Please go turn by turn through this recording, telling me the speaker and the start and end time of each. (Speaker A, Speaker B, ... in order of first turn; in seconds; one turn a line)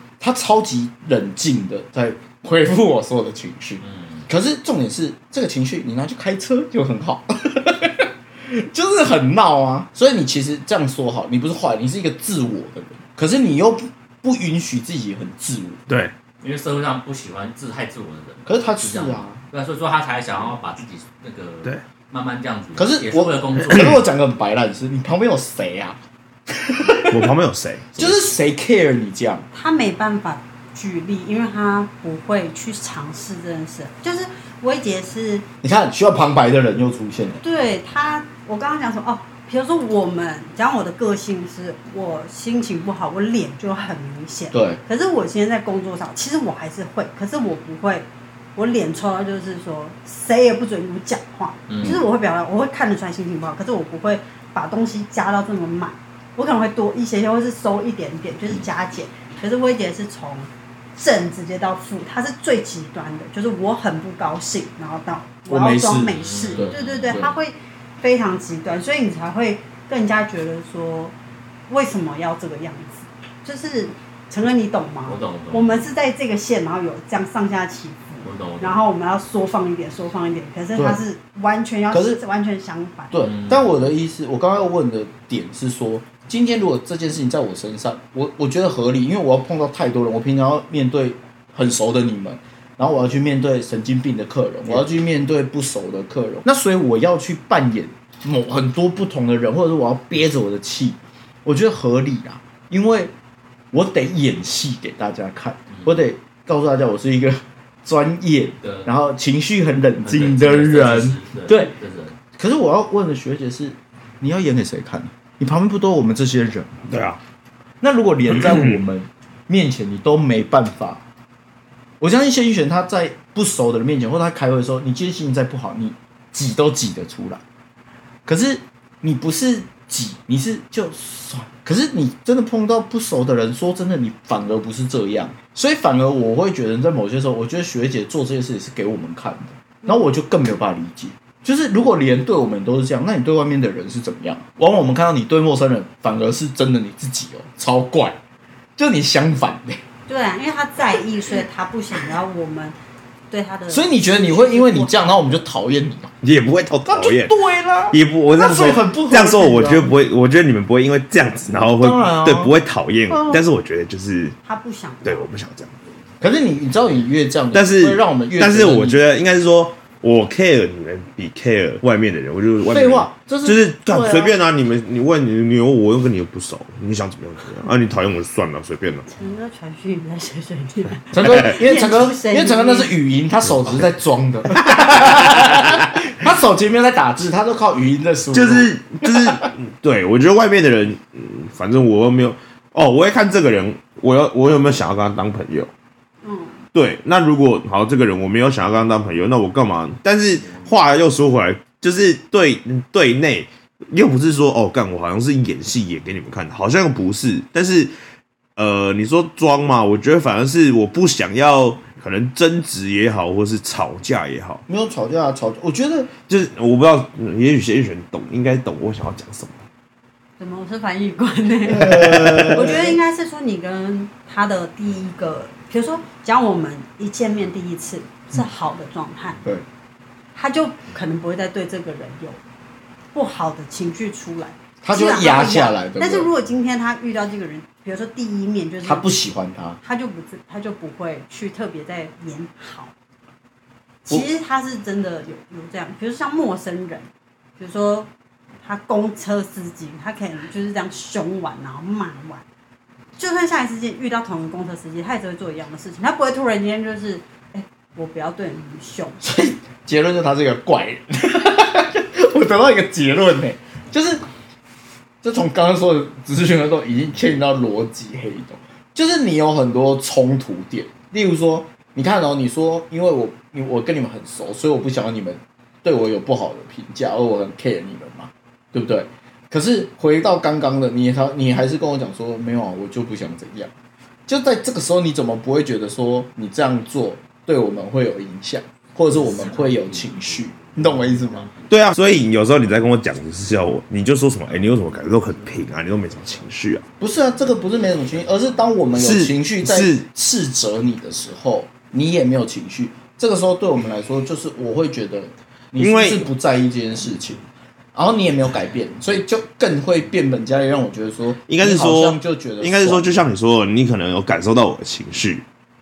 Speaker A: 0.2-15.8
Speaker B: 3.8-4.3
Speaker C: 15.9-16.1
Speaker B: 16.4-24.0
Speaker A: 18.5-19.4
Speaker A: 22.8-27.3
Speaker C: 27.1-28.2
Speaker A: 28.0-29.5
Speaker D: 29.5-35.5
Speaker A: 35.6-37.4
Speaker D: 37.4-71.1
Speaker A: 44.5-44.8
Speaker B: 51.7-52.0
Speaker A: 65.5-67.3
Speaker B: 66.2-67.3
Speaker D: 71.7-83.1
Speaker B: 75.1-75.9
Speaker B: 78.2-78.8
Speaker A: 81.9-82.2
Speaker A: 83.1-103.1
Speaker B: 83.2-83.7
Speaker A: 103.7-111.7
Speaker B: 105.7-106.0
Speaker B: 108.6-108.9
Speaker B: 110.0-112.2
Speaker A: 112.4-116.8
Speaker C: 116.9-117.2
Speaker A: 117.8-121.0
Speaker C: 118.3-118.8
Speaker A: 122.0-127.4
Speaker A: 128.3-148.2
Speaker A: 148.8-149.8
Speaker D: 150.1-152.8
Speaker D: 153.3-155.2
Speaker A: 153.7-156.1
Speaker C: 156.2-157.3
Speaker A: 156.9-160.0
Speaker C: 157.9-164.4
Speaker A: 161.5-162.6
Speaker A: 163.1-163.4
Speaker D: 164.5-165.3
Speaker C: 165.0-165.8
Speaker A: 166.2-169.0
Speaker C: 167.5-179.1
Speaker A: 172.7-174.3
Speaker D: 179.1-182.9
Speaker A: 181.1-189.4
Speaker C: 188.3-195.7
Speaker D: 196.2-196.6
Speaker C: 196.7-207.9
Speaker C: 208.6-214.6
Speaker A: 214.7-216.2
Speaker C: 216.3-219.7
Speaker D: 220.4-229.4
Speaker A: 221.7-223.0
Speaker D: 230.3-232.4
Speaker D: 233.1-239.1
Speaker A: 234.8-236.3
Speaker A: 238.8-239.8
Speaker D: 239.8-242.9
Speaker D: 244.1-247.1
Speaker D: 247.6-248.1
Speaker D: 248.6-252.4
Speaker D: 253.2-259.2
Speaker A: 259.2-264.2
Speaker A: 265.2-283.7
Speaker A: 284.3-291.5
Speaker B: 289.1-291.6
Speaker C: 291.7-296.9
Speaker A: 297.0-307.4
Speaker C: 298.9-300.1
Speaker C: 305.8-306.3
Speaker A: 307.9-313.2
Speaker C: 311.5-315.4